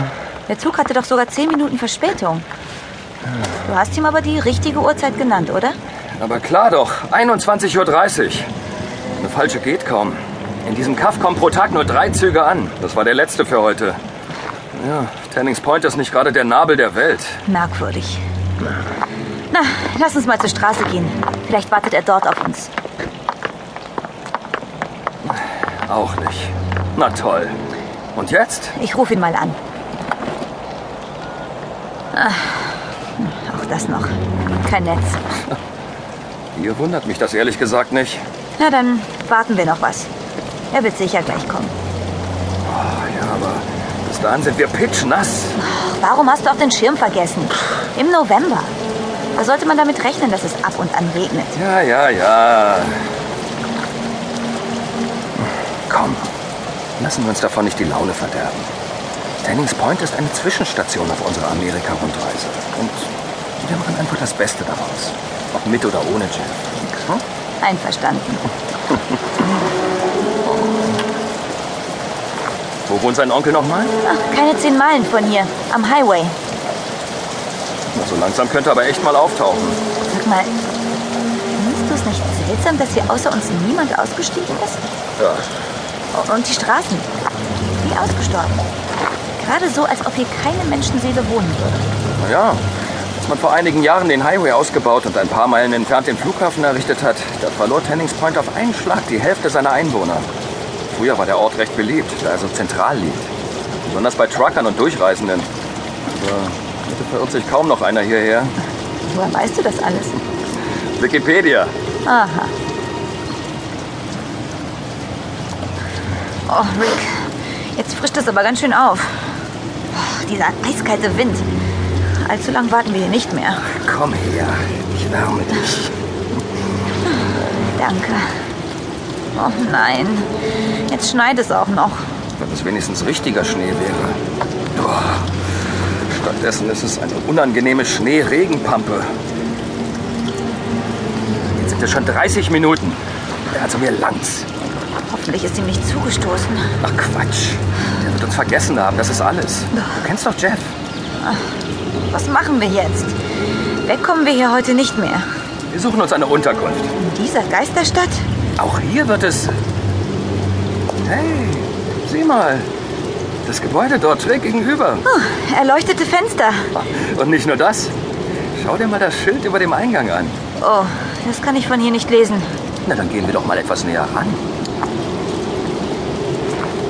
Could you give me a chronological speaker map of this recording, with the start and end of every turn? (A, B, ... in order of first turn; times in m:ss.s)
0:00.5-0:02.4 A
0:03.6-0:05.8 A
0:06.2-0:08.5 B
0:09.2-0:14.0 B
0:14.7-0:17.4 B
0:17.4-0:18.2 A
0:19.5-0:22.7 A
0:25.2-0:27.6 B
0:28.2-0:28.8 B
0:28.8-0:29.6 A
0:32.1-0:35.2 A
0:36.6-0:38.2 B
0:38.6-0:40.1 A
0:40.7-0:41.8 A
0:42.6-0:45.6 B
0:45.6-0:48.7 A
0:49.3-0:51.6 A
0:51.6-0:53.0 B
0:55.9-0:56.3 B
0:57.0-0:58.7 B
0:59.4-1:07.2 B
1:07.6-1:08.5 A
1:12.9-1:13.9 B
1:14.0-1:16.3 A
1:17.9-1:19.8 B
1:20.1-1:20.5 A
1:21.6-1:24.8 A
1:25.2-1:25.4 B
1:26.1-1:27.1 A
1:27.8-1:28.6 A
1:29.4-1:31.8 A
1:32.2-1:32.6 B
1:33.2-1:40.3 B
1:40.9-1:43.2 B
1:43.8-1:45.5 B
1:46.1-1:48.5 B
1:49.1-1:50.2 A
1:51.0-1:51.7 B
1:52.0-1:52.5 A
1:56.5-1:59.3 A
1:59.9-2:01.5 A
2:02.2-2:03.7 A
2:03.7-2:05.9 B
2:07.7-2:08.3 A
2:09.4-2:10.3 A
2:10.9-2:12.0 A
2:12.4-2:14.2 B
2:14.7-2:15.3 B
2:16.1-2:19.1 B
2:21.4-2:23.0 B
2:23.5-2:24.5 B
2:25.1-2:26.7 A
2:26.8-2:30.7 B
2:32.1-2:33.1 A
2:33.8-2:35.3 A
2:35.7-2:36.9 B
2:37.0-2:38.2 A
2:38.6-2:39.5 B
2:41.0-2:42.7 B
2:43.4-2:45.1 B
2:45.1-2:46.7 A
2:46.8-2:47.9 B
2:48.5-2:50.3 B
2:50.6-2:52.5 A
2:52.8-2:54.4 B